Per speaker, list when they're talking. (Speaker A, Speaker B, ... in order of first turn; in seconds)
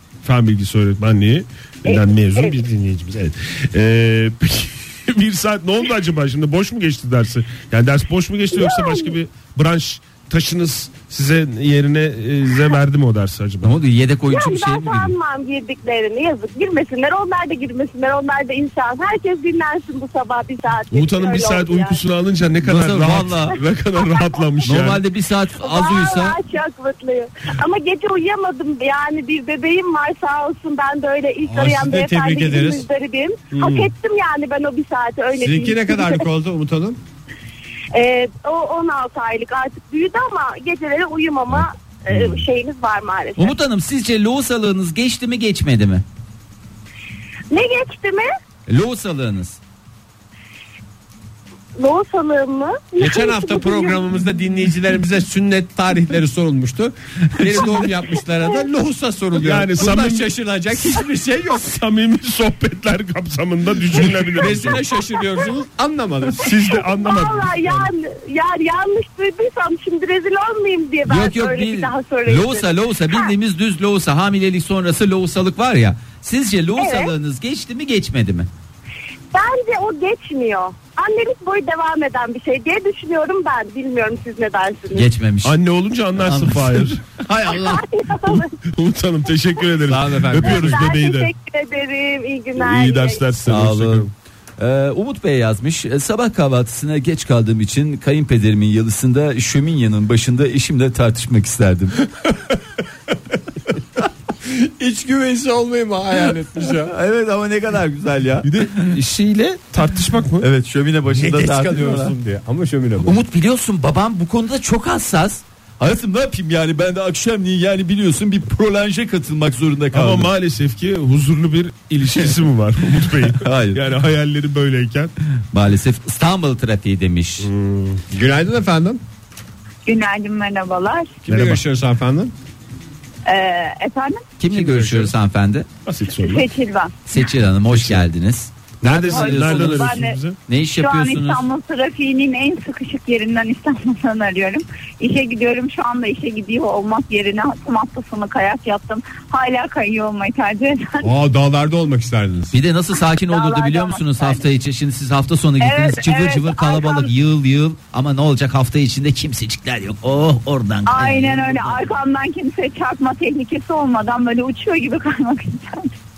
Speaker A: 0.2-13.8, 20.9-25.0, 33.5-33.9, 59.4-60.3, 61.6-64.8, 66.4-67.9, 85.4-87.0, 88.7-91.3, 92.5-94.1, 108.4-110.5, 119.9-125.1, 127.4-128.0, 131.3-131.6, 134.5-135.1, 135.8-136.4, 137.7-138.1, 138.8-140.4
Speaker B: 1.9-2.6, 8.5-9.2, 14.3-22.0, 23.9-24.6, 25.6-36.3, 37.9-43.5, 47.5-48.3, 51.8-54.1, 65.0-65.5, 66.5-73.3, 76.8-77.1, 79.3-85.1, 87.4-88.6, 90.4-93.2, 136.2-136.8, 153.3-154.3, 155.6-157.1
Speaker C: 13.6-15.1, 22.6-23.6, 24.6-26.4, 43.4-46.0, 48.7-49.6, 71.1-78.5, 84.9-85.6, 86.2-87.8, 93.5-102.0, 106.6-108.9, 110.4-112.1, 113.0-120.3, 123.3-123.8, 125.5-127.5, 134.4-135.7, 137.1-141.5, 152.5-161.8
Speaker D: 31.4-32.9, 35.3-37.0, 53.0-61.7, 64.0-66.5, 89.9-90.9, 103.1-103.4, 104.4-106.9, 111.1-113.2, 128.1-129.0, 131.2-132.3, 151.0-152.6
Speaker E: 129.9-131.1, 133.2-134.2, 136.3-136.9, 139.2-140.2, 140.8-151.1, 160.9-165.9